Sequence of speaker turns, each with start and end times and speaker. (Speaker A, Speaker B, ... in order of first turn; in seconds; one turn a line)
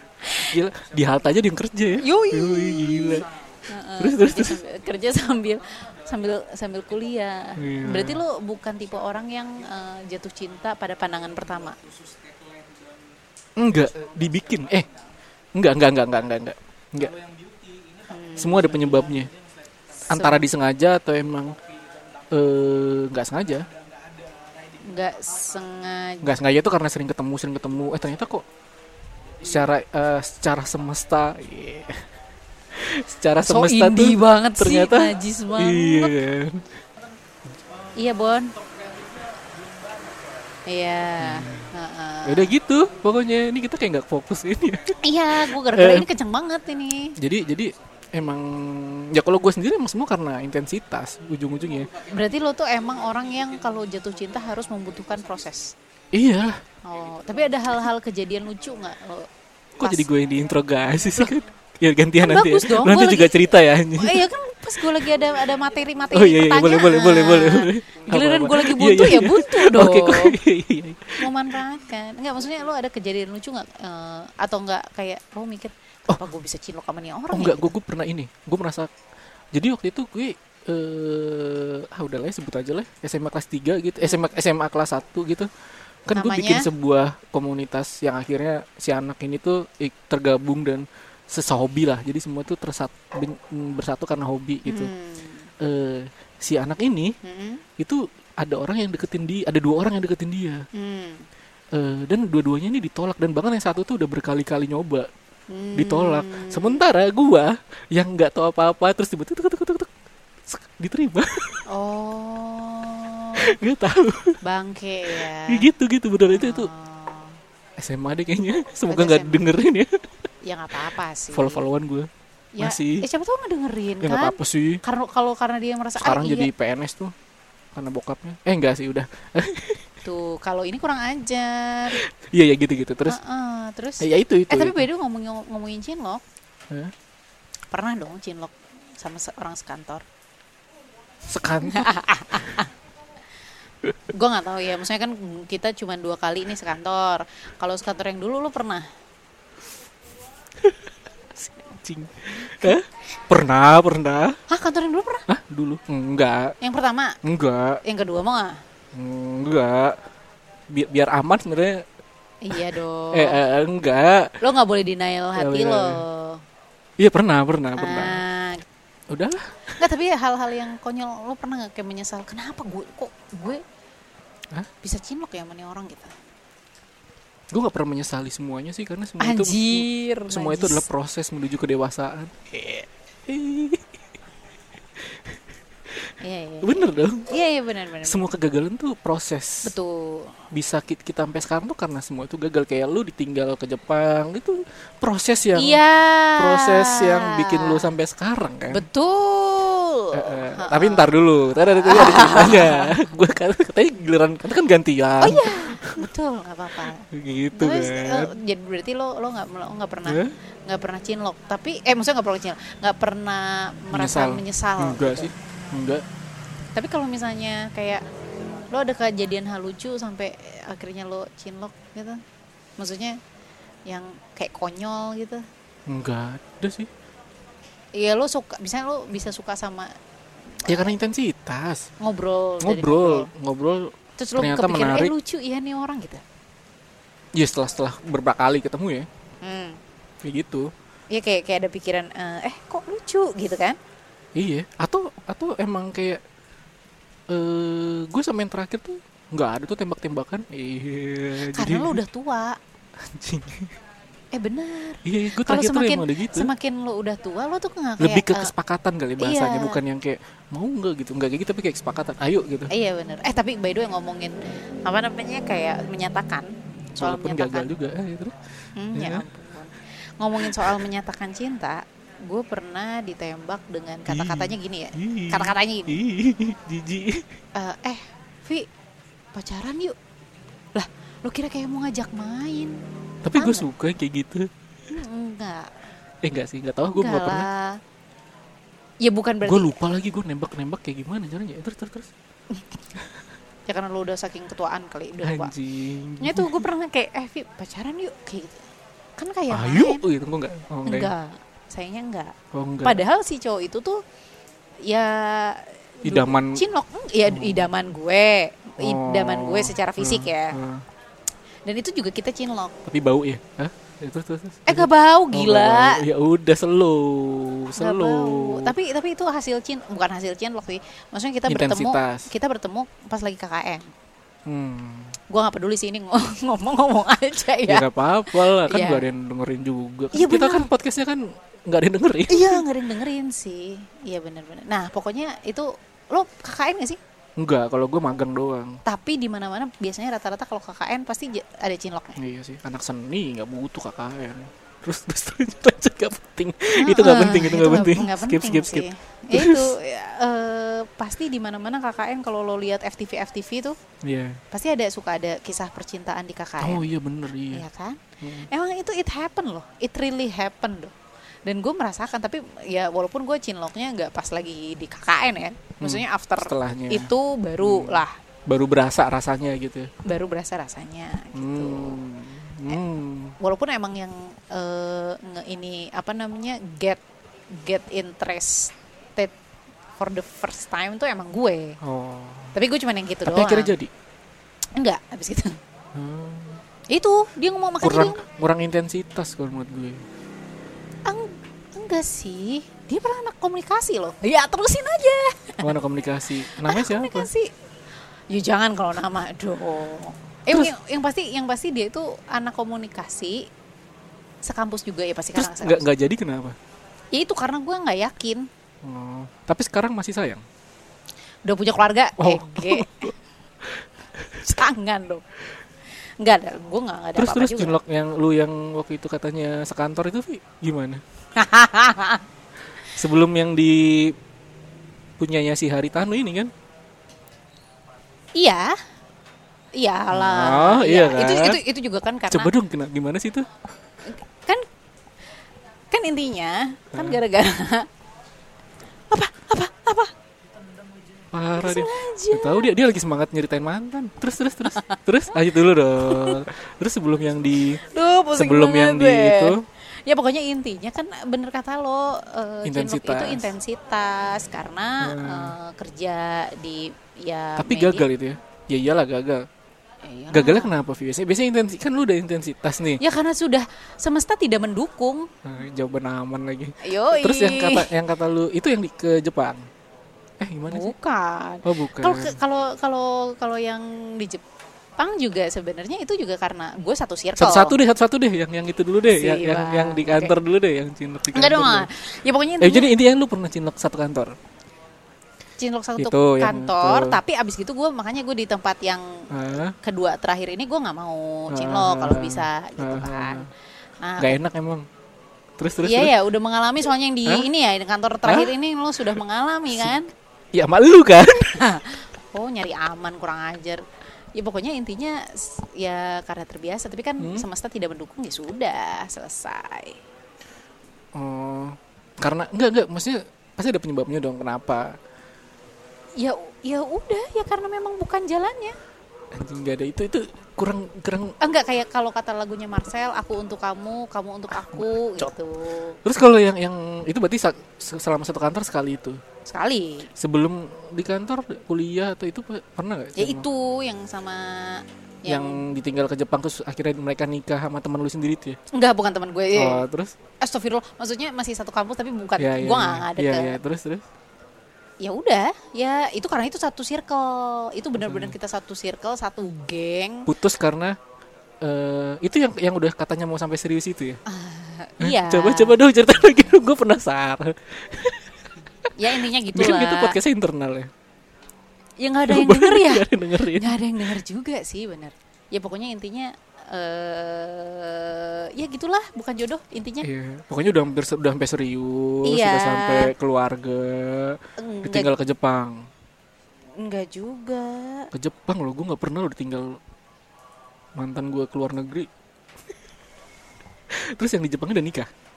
Speaker A: 0.2-0.6
Speaker B: 0.5-3.3
Speaker A: 2.0-11.9
Speaker B: 4.0-4.6
Speaker B: 7.6-8.2
Speaker B: 13.6-14.9
Speaker B: 15.5-17.2
Speaker A: 18.0-19.1
Speaker B: 18.4-19.3
Speaker B: 20.0-21.6
Speaker A: 20.1-20.5
Speaker B: 22.3-23.7
Speaker A: 24.8-26.3
Speaker B: 26.2-28.4
Speaker B: 29.4-32.0
Speaker B: 32.7-36.7
Speaker A: 33.4-36.2
Speaker A: 38.0-38.6
Speaker A: 40.6-42.5
Speaker B: 41.2-41.7
Speaker B: 42.2-46.1
Speaker A: 45.0-47.2
Speaker B: 47.2-51.9
Speaker A: 52.0-55.7
Speaker B: 56.1-56.6
Speaker A: 56.8-59.3
Speaker B: 59.8-64.3
Speaker A: 59.8-60.1
Speaker A: 62.2-70.4
Speaker B: 64.8-65.1
Speaker B: 66.1-71.3
Speaker A: 71.2-77.7
Speaker B: 77.3-78.9
Speaker B: 79.5-85.5
Speaker B: 86.1-94.9
Speaker A: 86.1-86.7
Speaker A: 94.7-95.5
Speaker B: 95.6-97.1
Speaker A: 97.2-97.6
Speaker B: 97.8-100.6
Speaker A: 100.7-101.2
Speaker B: 101.7-105.1
Speaker A: 105.5-106.8
Speaker B: 105.7-109.9
Speaker B: 110.5-111.6
Speaker A: 111.7-113.5
Speaker B: 113.4-114.4
Speaker A: 114.4-115.7
Speaker B: 115.2-116.7
Speaker A: 116.3-117.4
Speaker B: 117.8-120.1
Speaker A: 118.9-119.4
Speaker A: 120.4-121.7
Speaker B: 121.3-123.0
Speaker A: 122.5-126.5
Speaker B: 124.0-124.8
Speaker B: 126.0-127.1
Speaker B: 127.7-129.9
Speaker A: 130.0-132.0
Speaker B: 131.9-133.2
Speaker A: 133.1-136.2
Speaker B: 134.0-134.9
Speaker A: 137.7-140.0
Speaker B: 141.3-141.9
Speaker A: 141.6-142.7
Speaker A: 144.1-148.9
Speaker B: 150.6-154.4
Speaker A: 152.4-152.8
Speaker A: 154.5-155.3
Speaker B: 155.3-156.6
Speaker A: 156.6-157.2
Speaker B: 157.2-157.8
Speaker A: 157.8-158.6
Speaker B: 158.9-160.0
Speaker B: 160.7-161.8
Speaker A: 162.4-163.4
Speaker B: 162.5-164.3
Speaker A: 164.4-166.4
Speaker B: 165.3-166.0
Speaker B: 167.0-168.2
Speaker A: 167.8-168.7
Speaker B: 169.1-169.8
Speaker A: 169.7-173.6
Speaker A: 174.8-176.2
Speaker B: 177.5-183.9
Speaker A: 179.2-180.9
Speaker B: 185.0-185.4
Speaker B: 185.9-187.3
Speaker A: 186.2-188.3
Speaker B: 188.0-189.8
Speaker A: 189.6-190.4
Speaker B: 190.5-195.8
Speaker A: 195.6-197.9
Speaker B: 196.4-198.8
Speaker A: 198.7-201.1
Speaker B: 200.1-206.1
Speaker A: 201.7-202.9
Speaker A: 205.2-215.3
Speaker B: 206.9-208.3
Speaker B: 210.1-210.3
Speaker B: 213.9-216.0
Speaker A: 216.7-218.0
Speaker A: 218.7-222.2
Speaker A: 222.8-223.2
Speaker A: 223.9-225.4
Speaker B: 225.9-226.9
Speaker A: 227.9-229.9
Speaker A: 230.5-230.9
Speaker B: 230.6-231.9
Speaker A: 232.0-233.3
Speaker B: 232.6-235.1
Speaker A: 234.2-236.2
Speaker B: 237.3-239.1
Speaker A: 239.4-239.8
Speaker B: 240.2-240.7
Speaker A: 241.1-243.8
Speaker B: 244.3-246.2
Speaker B: 247.3-252.0
Speaker A: 251.4-252.6
Speaker B: 253.0-253.8
Speaker A: 254.3-258.5
Speaker B: 255.0-256.5
Speaker B: 258.0-262.7
Speaker A: 259.2-259.8
Speaker A: 262.7-267.7
Speaker B: 267.0-268.4
Speaker A: 268.8-276.0
Speaker B: 268.9-269.3
Speaker B: 270.4-270.9
Speaker B: 274.1-277.4
Speaker A: 277.5-278.7
Speaker A: 279.3-280.0
Speaker A: 280.7-282.8
Speaker B: 283.2-284.5
Speaker A: 283.3-283.7
Speaker A: 284.9-285.8
Speaker B: 286.2-287.5
Speaker A: 286.9-287.8
Speaker A: 289.0-289.8
Speaker B: 289.4-292.1
Speaker A: 293.7-295.5
Speaker B: 295.2-296.6
Speaker A: 296.2-300.0
Speaker B: 299.5-301.1
Speaker A: 300.8-304.0
Speaker B: 302.5-303.0
Speaker A: 304.8-310.6
Speaker B: 306.0-306.6
Speaker B: 307.2-307.7
Speaker B: 308.8-310.8
Speaker A: 311.6-312.8
Speaker B: 312.9-318.7
Speaker A: 314.6-316.0
Speaker A: 317.8-323.9
Speaker B: 321.5-322.3
Speaker B: 324.4-325.2
Speaker A: 325.3-329.1
Speaker B: 327.6-332.6
Speaker A: 330.1-330.7
Speaker A: 332.3-337.0
Speaker B: 337.4-338.8
Speaker A: 338.8-342.2
Speaker B: 342.2-349.7
Speaker A: 346.8-353.8
Speaker B: 354.0-354.4
Speaker A: 354.5-356.8
Speaker B: 356.6-357.6
Speaker A: 357.5-368.1
Speaker B: 358.2-358.5
Speaker B: 365.8-369.9
Speaker A: 370.0-372.0
Speaker B: 371.3-373.4
Speaker A: 373.4-379.3
Speaker A: 380.0-381.8
Speaker B: 381.8-382.6
Speaker A: 382.5-383.7
Speaker B: 383.2-383.9
Speaker A: 384.7-385.6
Speaker B: 385.9-386.6
Speaker A: 386.9-388.2
Speaker B: 387.8-390.0
Speaker A: 391.1-395.7
Speaker B: 395.6-397.3
Speaker A: 396.4-397.5
Speaker A: 398.3-403.5
Speaker A: 404.4-405.8
Speaker B: 405.3-406.6
Speaker A: 407.1-408.5
Speaker B: 408.8-410.4
Speaker A: 411.4-413.1
Speaker B: 412.2-413.1
Speaker B: 413.6-414.4
Speaker A: 414.4-415.2
Speaker A: 416.2-417.8
Speaker B: 417.1-421.0
Speaker A: 421.3-422.2
Speaker B: 422.8-424.1
Speaker B: 425.2-426.5
Speaker A: 428.4-428.8
Speaker A: 429.7-432.5
Speaker B: 430.1-431.6
Speaker B: 432.3-433.5
Speaker A: 434.0-434.6
Speaker A: 435.9-437.9
Speaker B: 436.9-437.2
Speaker A: 439.1-440.1
Speaker B: 441.3-447.8
Speaker A: 441.5-442.7
Speaker A: 444.7-445.0
Speaker A: 446.0-446.4
Speaker A: 447.8-458.1
Speaker B: 448.3-449.6
Speaker B: 452.6-453.5
Speaker B: 455.0-455.6
Speaker B: 457.6-459.4
Speaker A: 460.0-460.8
Speaker B: 460.3-463.0
Speaker A: 463.0-465.3
Speaker B: 465.4-469.6
Speaker A: 466.8-467.9
Speaker B: 470.4-470.9
Speaker A: 470.7-474.4
Speaker B: 471.6-472.4
Speaker A: 475.0-477.8
Speaker B: 477.4-481.9
Speaker A: 479.1-480.3
Speaker A: 481.3-482.9
Speaker B: 482.6-484.3
Speaker A: 485.6-493.5
Speaker B: 486.0-487.2
Speaker B: 489.3-489.8
Speaker B: 491.5-493.5
Speaker A: 494.0-494.4
Speaker B: 494.2-494.9
Speaker B: 495.6-496.1
Speaker A: 495.8-500.1
Speaker B: 498.2-498.5
Speaker B: 500.5-501.6
Speaker A: 501.5-510.0
Speaker B: 507.2-507.5
Speaker B: 511.1-515.0
Speaker A: 516.2-518.8
Speaker B: 519.3-521.4
Speaker A: 521.4-526.0
Speaker B: 524.5-525.3
Speaker B: 526.0-529.2
Speaker A: 529.5-530.1
Speaker B: 530.1-533.5
Speaker A: 533.1-535.6
Speaker B: 535.2-538.6
Speaker A: 538.7-539.9
Speaker B: 539.5-540.1
Speaker A: 540.4-543.6
Speaker B: 542.4-544.0
Speaker A: 545.0-550.3
Speaker B: 548.0-548.4
Speaker B: 550.2-551.0
Speaker B: 551.6-554.2
Speaker A: 554.3-555.8
Speaker B: 555.0-560.9
Speaker A: 559.0-560.2
Speaker A: 562.0-570.1
Speaker B: 562.2-564.1
Speaker B: 570.0-575.9
Speaker A: 572.2-573.1
Speaker A: 574.6-575.1
Speaker A: 576.8-578.1
Speaker B: 578.1-579.8
Speaker B: 581.0-582.1
Speaker B: 583.9-585.1